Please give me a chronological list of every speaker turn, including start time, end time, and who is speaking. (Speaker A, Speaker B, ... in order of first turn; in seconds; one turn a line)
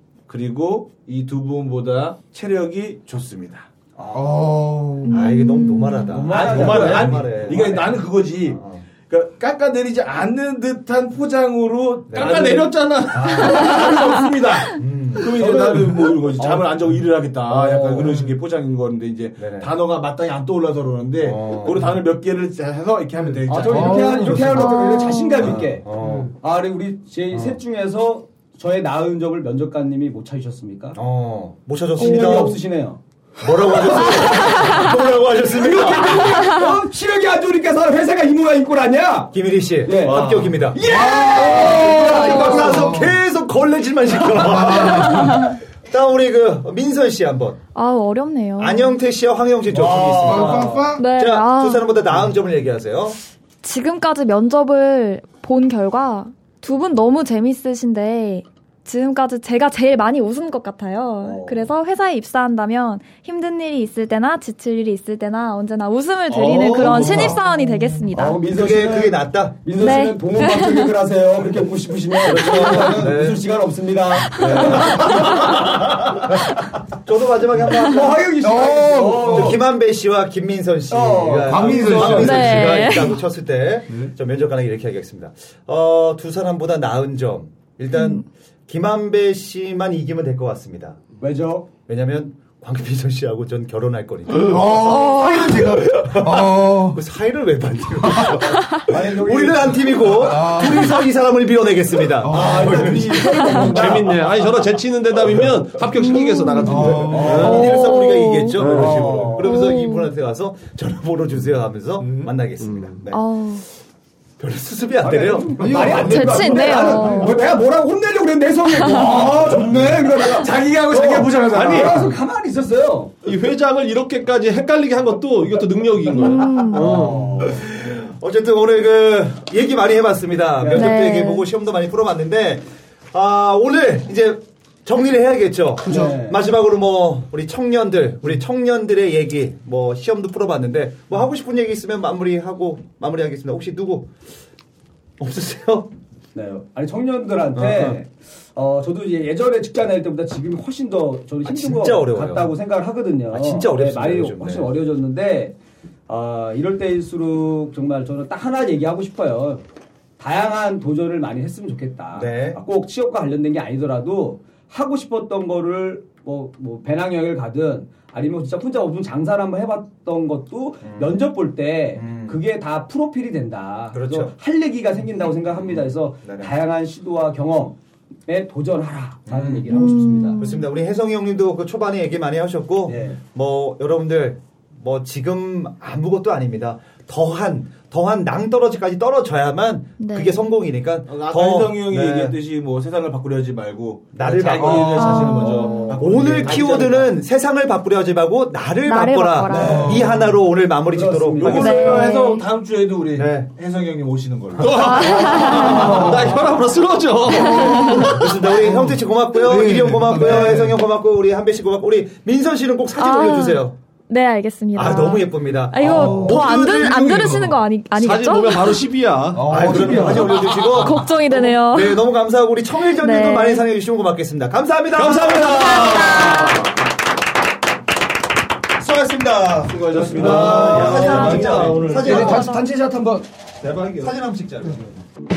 Speaker A: 0.3-3.7
Speaker B: 4.0-4.5
Speaker C: 4.1-5.2
Speaker D: 5.0-6.2
Speaker E: 5.1-8.8
Speaker B: 6.1-7.9
Speaker A: 6.3-24.6
Speaker F: 6.5-7.2
Speaker E: 12.1-12.5
Speaker F: 12.1-14.2
Speaker E: 14.7-15.3
Speaker F: 15.2-16.3
Speaker B: 16.4-16.7
Speaker B: 17.5-18.1
Speaker E: 19.4-19.7
Speaker E: 21.2-21.9
Speaker B: 23.5-31.0
Speaker C: 23.7-24.5
Speaker E: 24.2-24.7
Speaker D: 24.5-25.6
Speaker E: 25.4-26.3
Speaker C: 26.0-26.3
Speaker E: 27.3-27.6
Speaker E: 30.9-32.6
Speaker D: 32.0-32.5
Speaker B: 32.0-33.0
Speaker E: 33.4-36.6
Speaker B: 33.8-34.8
Speaker D: 34.6-34.9
Speaker B: 35.4-42.9
Speaker E: 39.3-40.8
Speaker F: 40.0-40.6
Speaker C: 40.8-43.2
Speaker E: 41.5-47.6
Speaker C: 44.4-45.5
Speaker D: 47.8-49.0
Speaker E: 48.6-53.2
Speaker A: 49.8-50.3
Speaker B: 50.1-50.9
Speaker C: 50.3-51.0
Speaker D: 51.0-51.9
Speaker D: 53.6-68.4
Speaker B: 61.2-61.7
Speaker A: 66.4-67.3
Speaker F: 66.4-67.4
Speaker B: 66.8-67.3
Speaker C: 67.4-68.0
Speaker B: 68.1-76.2
Speaker E: 68.5-69.6
Speaker D: 69.8-70.9
Speaker E: 72.3-73.4
Speaker E: 74.3-75.7
Speaker D: 74.9-75.6
Speaker E: 77.0-78.2
Speaker D: 77.7-78.0
Speaker B: 77.8-79.6
Speaker C: 78.4-79.6
Speaker E: 79.3-91.0
Speaker B: 80.9-82.5
Speaker C: 81.4-83.0
Speaker D: 82.1-83.2
Speaker D: 87.9-88.2
Speaker B: 91.2-91.7
Speaker E: 91.9-104.0
Speaker C: 94.3-97.0
Speaker C: 98.0-98.4
Speaker B: 98.8-100.1
Speaker C: 100.1-101.1
Speaker C: 102.2-103.0
Speaker B: 102.3-104.2
Speaker F: 103.5-107.7
Speaker D: 106.0-108.6
Speaker C: 106.6-107.6
Speaker E: 106.9-113.2
Speaker B: 107.1-107.9
Speaker F: 108.6-109.4
Speaker B: 108.7-109.5
Speaker D: 109.4-110.1
Speaker C: 112.0-112.3
Speaker F: 112.6-113.0
Speaker D: 113.1-113.7
Speaker E: 114.4-116.8
Speaker B: 115.0-123.1
Speaker C: 115.5-117.3
Speaker D: 116.0-117.3
Speaker D: 118.7-119.3
Speaker A: 119.0-119.6
Speaker A: 120.2-122.2
Speaker F: 121.5-122.1
Speaker F: 123.2-127.3
Speaker D: 126.1-127.0
Speaker B: 126.7-127.7
Speaker E: 127.4-144.1
Speaker B: 130.6-131.0
Speaker D: 130.7-131.5
Speaker C: 135.9-136.2
Speaker B: 135.9-136.4
Speaker E: 145.2-145.9
Speaker B: 146.3-155.6
Speaker E: 147.6-148.1
Speaker E: 151.4-152.5
Speaker E: 153.3-154.7
Speaker B: 156.1-159.6
Speaker B: 160.2-180.4
Speaker E: 162.1-162.6
Speaker E: 170.8-171.2
Speaker E: 171.9-172.4
Speaker E: 173.9-174.3
Speaker E: 175.5-176.6
Speaker E: 179.3-179.7
Speaker D: 179.7-180.7
Speaker E: 180.4-192.4
Speaker B: 182.9-183.2
Speaker D: 190.0-190.4
Speaker A: 191.1-197.1
Speaker E: 194.1-201.9
Speaker D: 194.9-195.9
Speaker B: 195.8-197.1
Speaker D: 198.9-200.0
Speaker B: 199.5-200.3
Speaker C: 199.6-200.1
Speaker B: 200.9-202.0
Speaker A: 201.4-206.1
Speaker D: 201.5-202.5
Speaker E: 203.2-203.5
Speaker F: 204.6-208.5
Speaker D: 204.7-206.0
Speaker C: 205.8-206.3
Speaker D: 207.3-208.0
Speaker C: 207.4-210.8
Speaker E: 208.1-213.8
Speaker D: 213.0-218.8
Speaker E: 214.8-217.1
Speaker C: 215.8-217.6
Speaker F: 217.9-219.7
Speaker C: 219.3-220.4
Speaker E: 219.5-226.4
Speaker B: 219.5-220.3
Speaker D: 220.5-222.1
Speaker D: 223.0-223.7
Speaker F: 224.9-226.7
Speaker D: 225.5-226.6
Speaker E: 228.8-232.5
Speaker F: 229.7-232.3
Speaker A: 229.8-232.1
Speaker D: 231.0-231.6
Speaker C: 231.9-233.3
Speaker D: 232.2-232.6
Speaker A: 233.6-234.1
Speaker E: 234.0-235.0